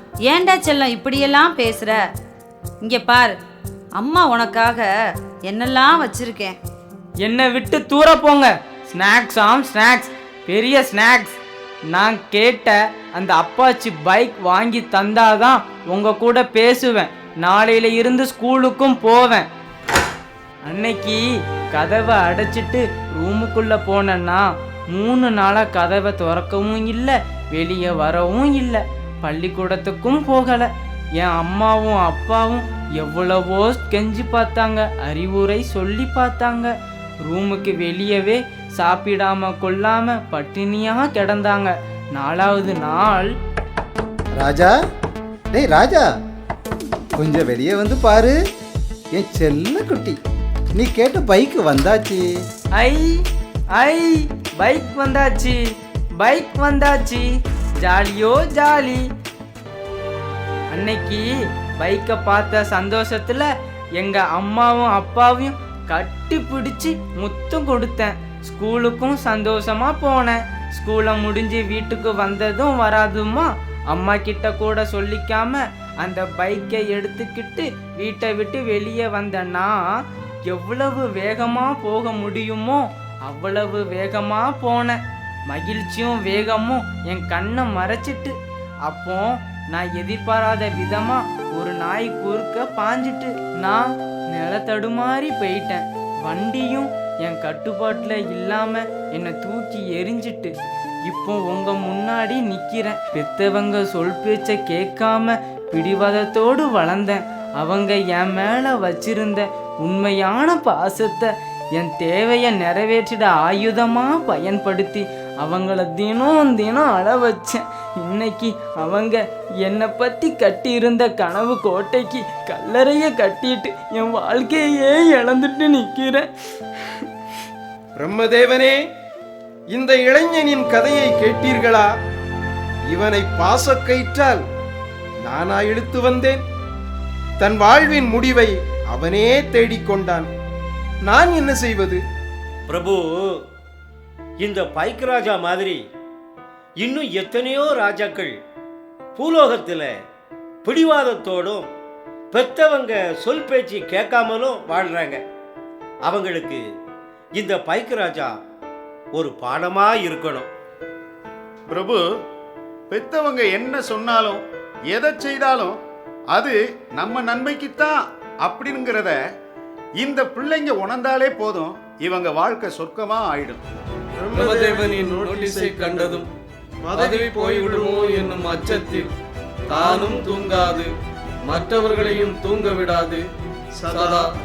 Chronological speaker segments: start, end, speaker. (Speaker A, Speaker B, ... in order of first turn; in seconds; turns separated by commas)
Speaker A: 0.2-2.0, Speaker A: 2.8-3.4, Speaker A: 4.0-4.9, Speaker A: 5.5-6.6, Speaker B: 7.2-11.4, Speaker B: 11.9-19.5, Speaker B: 20.7-36.7, Speaker B: 37.2-43.3, Speaker C: 44.4-44.8, Speaker C: 45.5-46.1, Speaker C: 47.1-48.4, Speaker C: 49.1-50.2, Speaker C: 50.8-52.4, Speaker B: 52.8-53.2, Speaker B: 53.8-55.6, Speaker B: 56.2-57.3, Speaker B: 57.8-59.1, Speaker B: 60.7-100.5, Speaker B: 101.1-126.3, Speaker D: 128.0-128.8, Speaker D: 129.7-131.9, Speaker D: 132.9-134.4, Speaker D: 135.2-136.4, Speaker D: 137.4-140.3, Speaker D: 141.1-142.0, Speaker E: 142.7-143.4, Speaker E: 144.4-145.8, Speaker E: 146.8-148.4, Speaker E: 149.2-149.9, Speaker E: 150.6-151.7, Speaker E: 152.3-155.2, Speaker E: 156.1-156.6, Speaker E: 157.4-158.3, Speaker E: 159.2-160.5, Speaker F: 161.7-162.0, Speaker F: 162.9-165.8, Speaker F: 166.3-169.2, Speaker F: 170.0-173.6, Speaker D: 174.2-176.2, Speaker G: 174.3-176.3, Speaker D: 176.8-178.2, Speaker G: 176.9-179.1, Speaker G: 179.7-180.9, Speaker G: 181.5-183.2, Speaker D: 183.8-184.3, Speaker G: 183.9-184.3